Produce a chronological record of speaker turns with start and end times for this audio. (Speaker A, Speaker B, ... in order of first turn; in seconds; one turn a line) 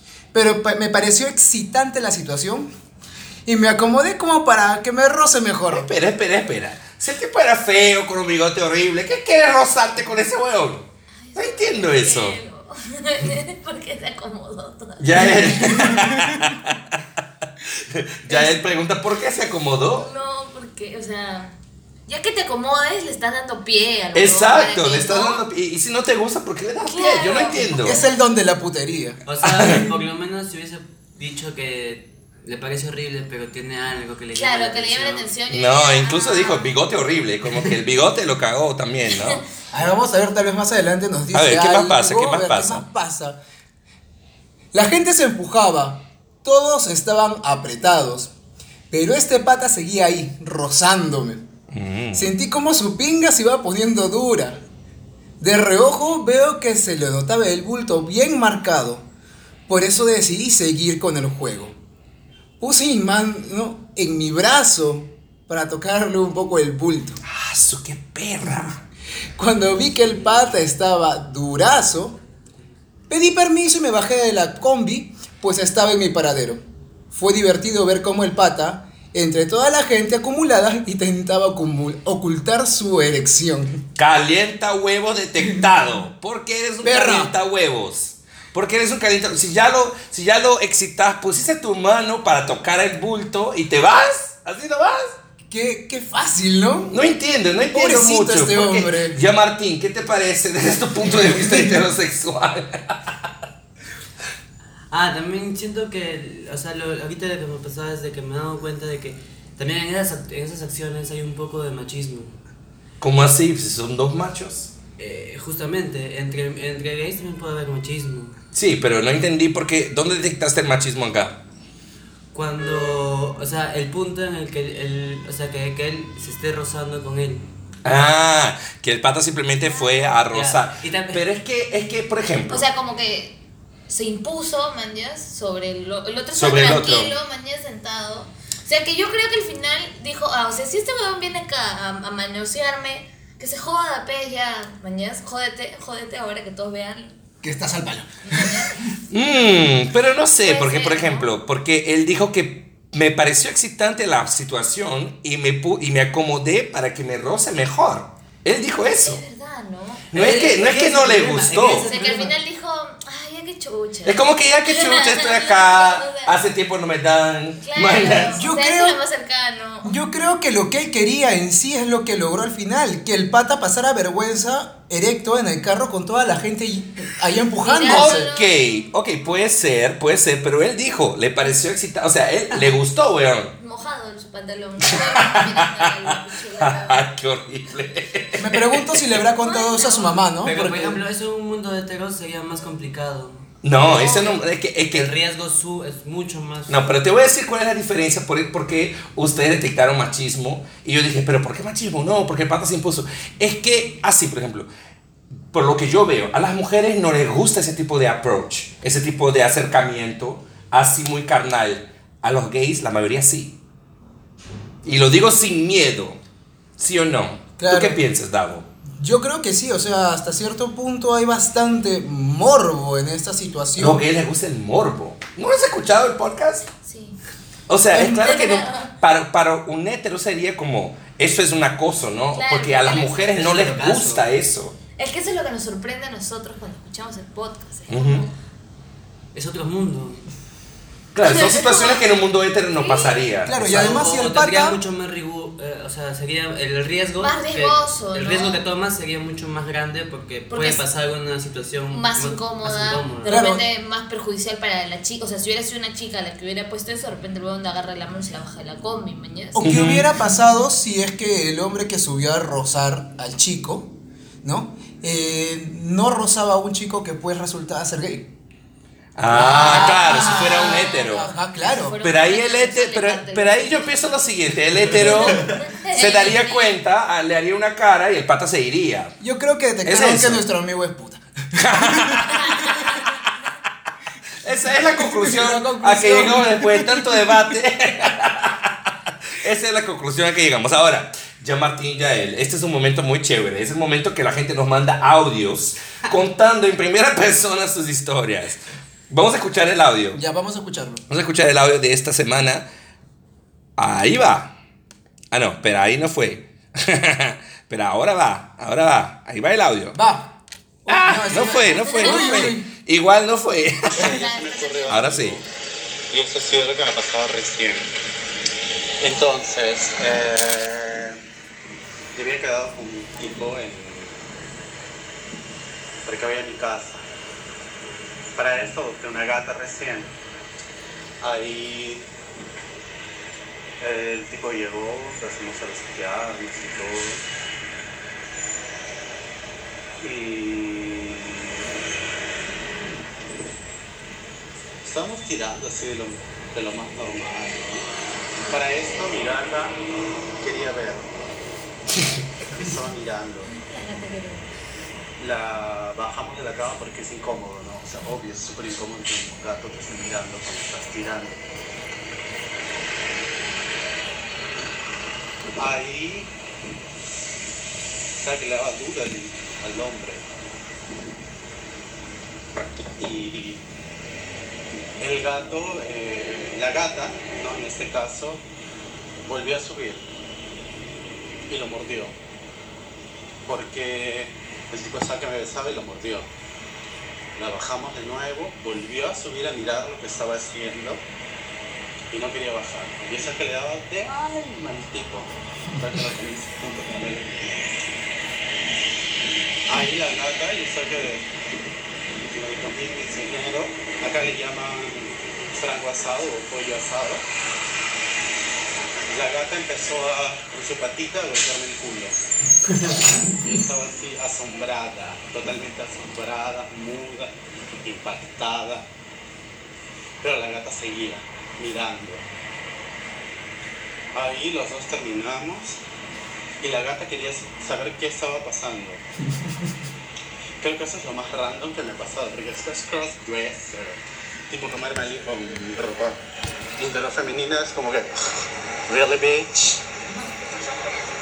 Speaker A: 0.3-2.7
Speaker A: 3.5-5.9
Speaker B: 5.7-12.4
Speaker C: 11.2-16.1
Speaker B: 15.0-16.8
Speaker A: 16.0-16.4
Speaker B: 17.8-20.1
Speaker C: 18.3-18.6
Speaker C: 20.0-21.6
Speaker C: 22.1-25.4
Speaker B: 24.1-28.0
Speaker C: 26.9-28.0
Speaker A: 27.7-29.2
Speaker D: 29.2-35.3
Speaker C: 34.3-36.8
Speaker B: 35.5-39.5
Speaker A: 39.7-43.4
Speaker B: 41.3-42.8
Speaker A: 44.7-48.3
Speaker A: 48.9-51.4
Speaker B: 51.7-52.3
Speaker A: 52.1-54.6
Speaker A: 55.4-59.1
Speaker A: 59.7-61.8
Speaker A: 62.6-67.2
Speaker B: 67.2-68.8
Speaker A: 69.4-72.2
Speaker D: 69.9-70.6
Speaker A: 73.1-83.8
Speaker B: 84.0-95.2
Speaker A: 86.8-87.3
Speaker A: 95.5-97.0
Speaker B: 96.9-103.1
Speaker A: 97.7-99.2
Speaker D: 104.9-112.4
Speaker B: 113.0-114.7
Speaker D: 115.0-118.4
Speaker B: 118.5-121.4
Speaker D: 122.3-127.5
Speaker B: 127.8-132.6
Speaker D: 130.3-131.2
Speaker C: 132.5-147.1
Speaker B: 136.3-137.1
Speaker A: 147.4-148.9
Speaker C: 148.3-148.7
Speaker B: 149.1-159.2
Speaker C: 150.4-151.3
Speaker C: 158.9-160.1
Speaker B: 160.1-161.9
Speaker D: 160.1-162.4
Speaker C: 161.7-166.3
Speaker B: 164.1-168.4
Speaker C: 167.6-170.0
Speaker A: 168.3-169.0
Speaker A: 169.8-178.3
Speaker C: 177.6-178.9
Speaker B: 177.8-183.6
Speaker C: 183.6-187.1
Speaker B: 184.9-189.1
Speaker A: 188.4-191.0
Speaker C: 189.4-190.2
Speaker D: 190.4-193.5
Speaker B: 193.6-195.1
Speaker C: 193.8-194.4
Speaker D: 194.9-196.9
Speaker B: 196.7-204.7
Speaker B: 205.5-213.6
Speaker B: 214.8-216.2
Speaker B: 216.8-218.7
Speaker A: 217.6-218.0
Speaker A: 219.0-224.0
Speaker B: 223.8-226.7
Speaker C: 226.8-227.2
Speaker B: 227.7-234.8
Speaker A: 227.9-228.3
Speaker C: 228.2-228.9
Speaker C: 232.3-233.4
Speaker D: 233.3-234.2
Speaker C: 235.0-238.3
Speaker B: 237.9-238.2
Speaker D: 239.3-240.2
Speaker B: 241.1-244.0
Speaker C: 241.2-242.0
Speaker C: 242.8-243.1
Speaker A: 243.5-244.8
Speaker D: 243.6-253.3
Speaker C: 247.2-248.6
Speaker C: 250.5-250.8
Speaker C: 251.9-259.6
Speaker A: 253.2-253.6
Speaker A: 259.5-263.9
Speaker B: 259.6-260.1
Speaker A: 264.4-268.3
Speaker B: 269.1-271.3
Speaker A: 269.3-272.0
Speaker C: 269.4-273.9
Speaker B: 272.0-279.1
Speaker C: 274.9-276.7
Speaker A: 279.2-282.7
Speaker B: 279.9-280.4
Speaker B: 281.6-282.7
Speaker C: 282.5-283.1
Speaker B: 284.4-300.2
Speaker A: 284.8-287.4
Speaker A: 300.1-301.0
Speaker B: 301.1-302.6
Speaker B: 303.8-304.5
Speaker B: 305.3-310.0
Speaker A: 309.9-310.3
Speaker A: 310.9-312.7
Speaker B: 310.9-314.1
Speaker C: 312.0-312.4
Speaker E: 314.0-315.5
Speaker C: 314.0-315.0
Speaker B: 314.9-315.4
Speaker E: 316.1-317.9
Speaker E: 319.0-321.2
Speaker E: 322.1-324.2
Speaker E: 326.1-327.0
Speaker E: 328.4-330.1
Speaker E: 331.2-332.1
Speaker E: 333.8-337.2
Speaker E: 340.0-341.5
Speaker E: 344.8-347.9
Speaker E: 348.5-349.8
Speaker E: 350.4-351.2
Speaker E: 352.4-353.5
Speaker C: 353.5-354.5
Speaker E: 355.2-361.4
Speaker E: 365.6-366.3
Speaker E: 368.2-370.2
Speaker E: 373.0-373.6
Speaker E: 375.0-378.4
Speaker E: 379.2-380.1
Speaker E: 381.5-382.1
Speaker E: 383.5-386.3
Speaker E: 387.4-391.0
Speaker E: 392.1-397.8
Speaker E: 399.7-401.2
Speaker E: 402.3-407.2
Speaker E: 409.1-412.1
Speaker E: 412.8-418.9
Speaker E: 420.2-422.2
Speaker E: 424.1-425.8
Speaker E: 426.6-429.0
Speaker E: 430.6-434.0
Speaker E: 434.5-436.2
Speaker E: 436.8-438.1
Speaker E: 438.9-439.8